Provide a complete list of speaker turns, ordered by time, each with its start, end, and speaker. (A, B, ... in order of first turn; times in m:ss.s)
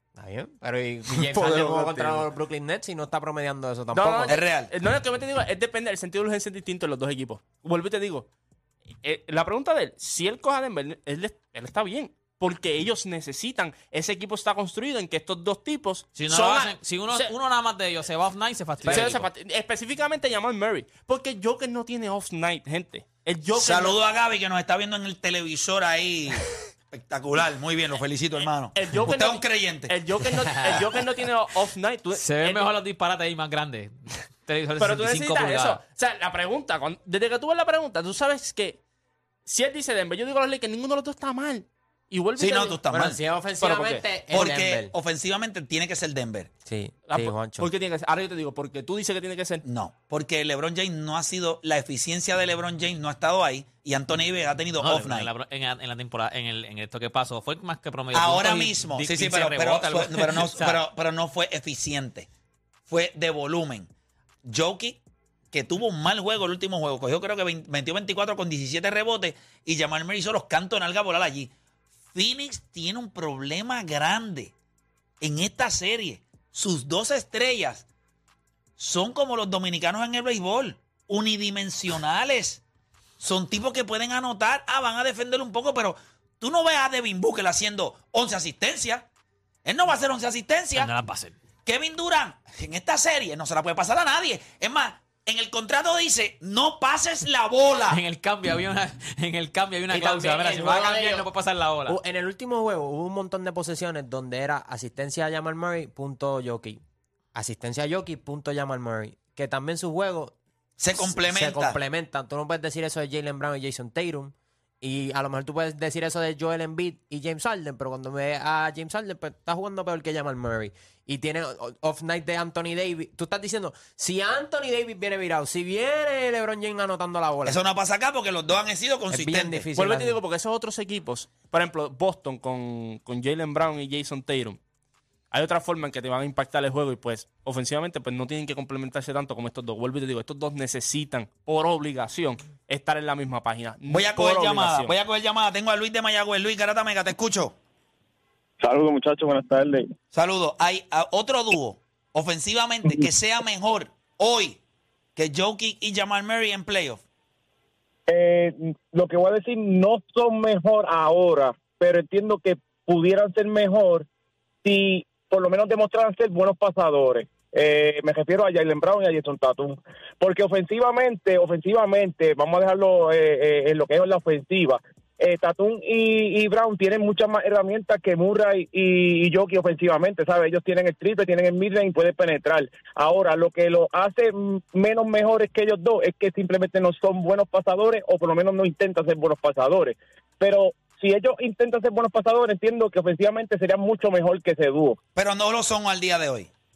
0:00.2-0:04.4 A
0:01.2-0:02.3 B
0:03.9-0:08.3 B
0:04.2-0:04.7 C
0:09.0-0:17.3 B
0:16.1-0:19.3 D
0:18.8-0:24.0 B
0:23.6-0:29.9 C
0:28.7-0:32.7 B
0:32.1-0:35.8 D
0:34.8-0:38.8 B
0:39.5-0:42.8 B
0:42.4-0:43.2 C
0:42.9-0:44.9 A
0:43.6-0:44.2 B
0:44.3-0:46.5 C
0:46.6-0:47.7 A
0:47.1-0:49.6 B
0:49.6-0:55.3 C
0:54.8-1:00.8 D
0:58.1-1:02.3 C
1:02.9-1:03.9 C
1:04.4-1:05.0 C
1:05.5-1:11.5 C
1:12.1-1:14.5 C
1:15.2-1:17.9 C
1:18.8-1:22.6 C
1:23.2-1:29.1 C
1:29.6-1:30.9 C
1:30.8-1:31.4 D
1:31.6-1:38.0 C
1:37.8-1:42.0 D
1:39.9-1:41.3 A
1:41.9-1:46.8 A
1:47.3-1:50.4 A
1:50.8-1:51.8 C
1:50.9-2:07.6 A
2:07.5-2:09.7 C
2:09.1-2:10.2 A
2:09.8-2:14.6 B
2:15.3-2:24.9 B
2:23.9-2:27.6 C
2:28.6-2:29.9 E
2:30.1-2:34.6 C
2:35.2-2:37.0 C
2:38.1-2:44.1 E
2:44.6-3:15.0 E
3:15.1-3:16.5 C